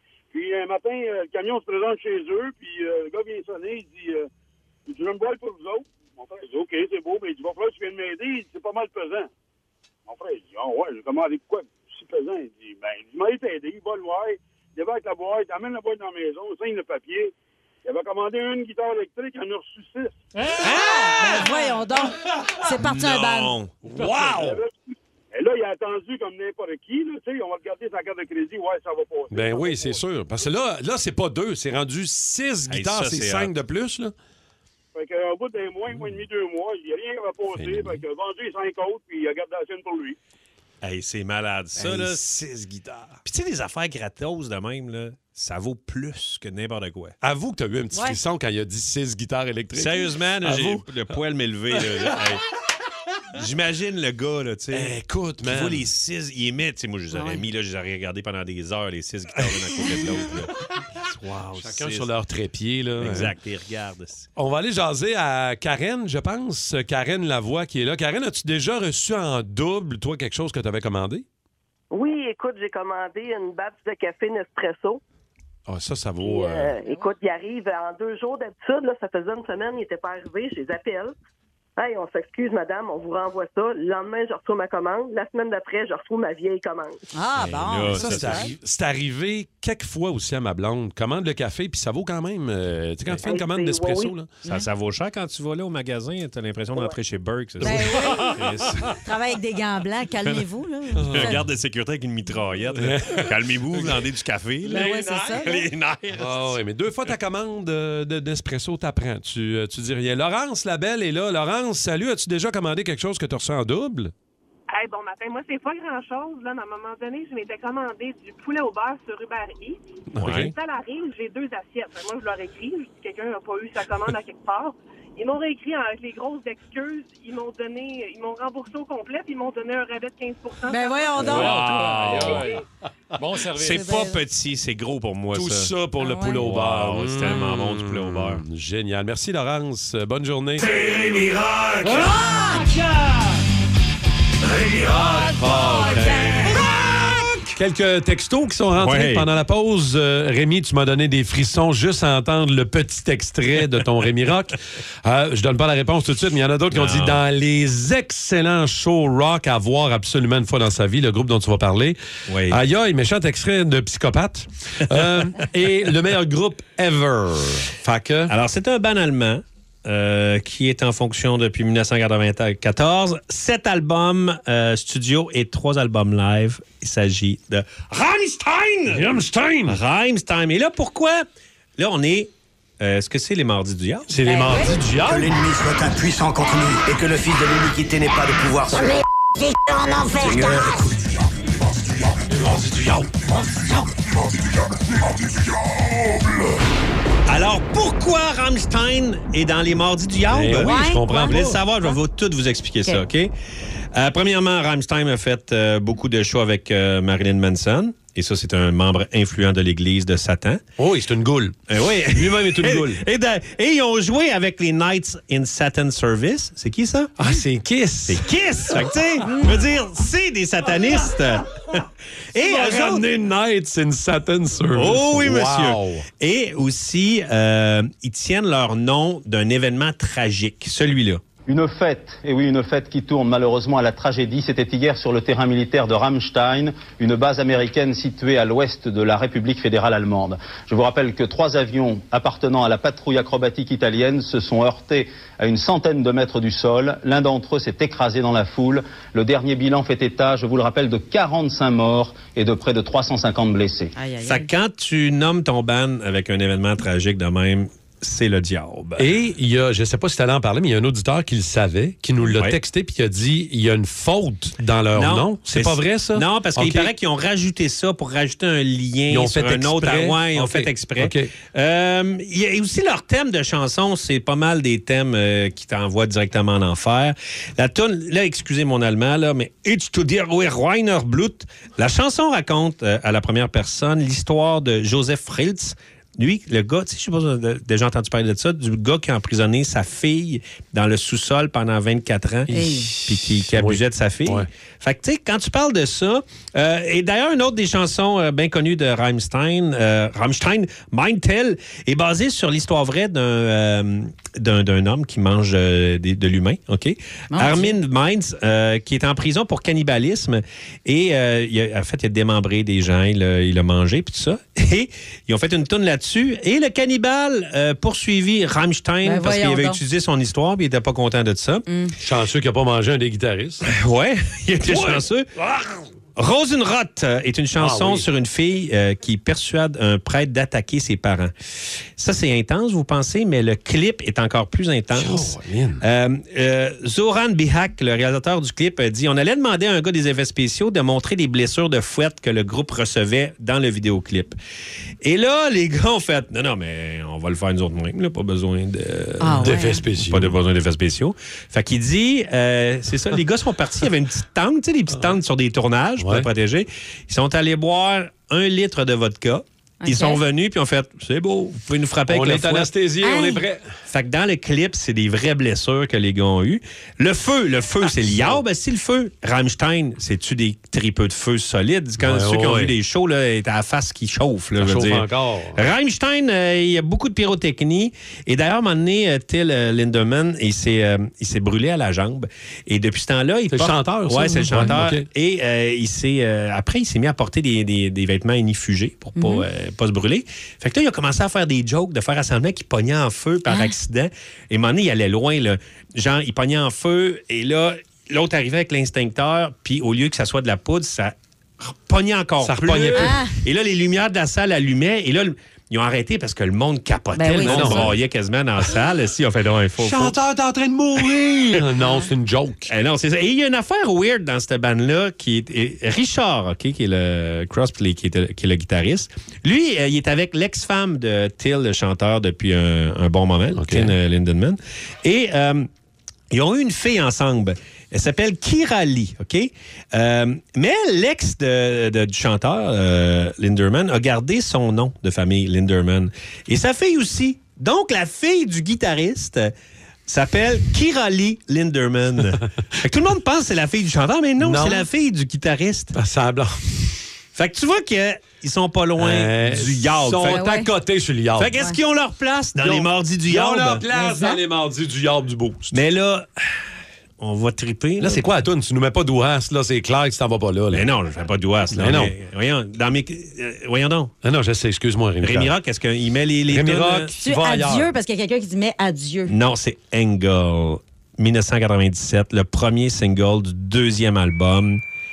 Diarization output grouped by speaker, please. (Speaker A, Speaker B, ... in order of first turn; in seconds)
Speaker A: 0.3-4.3, 4.9-9.3, 10.1-17.3, 17.9-20.2, 24.2-24.7, 25.3-30.0, 35.0-40.2
Speaker B: 20.4-20.7, 131.2-132.6, 133.2-133.9
Speaker C: 20.6-23.5, 47.9-48.2, 57.1-57.4, 87.1-88.5, 97.6-98.4, 98.9-101.4, 104.7-105.7, 130.7-131.6, 133.6-134.2, 136.0-136.4, 142.1-142.9, 145.4-146.6, 184.3-184.7, 200.5-202.0, 219.3-219.5, 254.0-254.5, 292.5-292.9, 307.3-307.8, 319.0-319.8, 321.7-322.0, 349.2-349.8, 359.8-360.2, 363.0-363.4, 389.2-389.4, 393.5-393.8, 402.9-403.4, 407.1-407.9, 450.2-450.7, 453.9-454.4, 467.2-469.4
Speaker D: 20.6-21.1, 22.8-23.7, 32.7-33.5, 40.8-42.4, 43.2-47.2, 49.8-52.4, 53.4-62.1, 63.0-64.3, 87.4-88.5, 94.5-99.0, 101.1-106.6, 120.2-120.5, 131.3-132.5, 133.6-135.7, 136.4-138.4, 140.6-142.2, 144.5-147.5, 148.8-149.3, 156.7-157.2, 162.3-162.6, 168.3-179.1, 179.7-181.3, 181.8-184.2, 197.3-203.3, 203.9-210.6, 211.7-217.2, 218.1-223.1, 224.7-231.2, 254.2-259.1, 262.3-262.6, 264.9-321.7, 323.6-325.3, 326.2-331.3, 332.0-344.4, 345.0-362.7, 363.9-410.2, 411.1-411.6, 412.7-425.7, 426.3-439.5, 440.1-446.0, 447.4-450.5, 451.4-453.9, 455.7-456.3, 457.2-458.3, 460.7-464.1, 465.2-467.1, 469.3-474.8
Speaker E: 23.9-24.6, 29.3-34.1, 35.9-36.2, 37.5-38.0, 41.8-43.2, 47.2-50.9, 51.7-52.2, 54.7-55.9, 61.6-63.4, 64.4-71.3, 75.7-76.8, 87.9-94.3, 97.6-98.8, 101.0-101.4, 102.8-104.0, 104.7-105.4, 106.1-114.1, 120.2-120.5, 135.3-140.7, 145.2-146.6, 147.6-168.3, 178.9-179.8, 184.1-185.3, 192.3-193.8, 200.3-201.6, 210.8-213.0, 217.2-218.9, 222.4-226.1, 259.0-266.9, 269.1-271.3, 292.5-294.5, 322.0-323.7, 324.6-325.9, 327.6-328.1, 334.9-335.8, 349.3-350.4, 356.0-356.3, 362.1-363.7, 367.8-368.4, 372.0-372.7, 374.6-375.6, 383.5-385.1, 402.4-403.2, 407.3-408.0, 409.8-412.7, 423.5-423.9, 444.4-444.9, 445.9-447.0, 449.0-451.6, 452.6-455.8, 458.0-460.9, 461.7-462.1, 464.2-465.5, 466.5-467.9
Speaker F: 71.9-75.0, 76.2-81.1, 81.8-87.0, 93.2-94.2
Speaker G: 114.7-131.2
Speaker H: 185.0-190.9
Speaker I: 231.5-253.9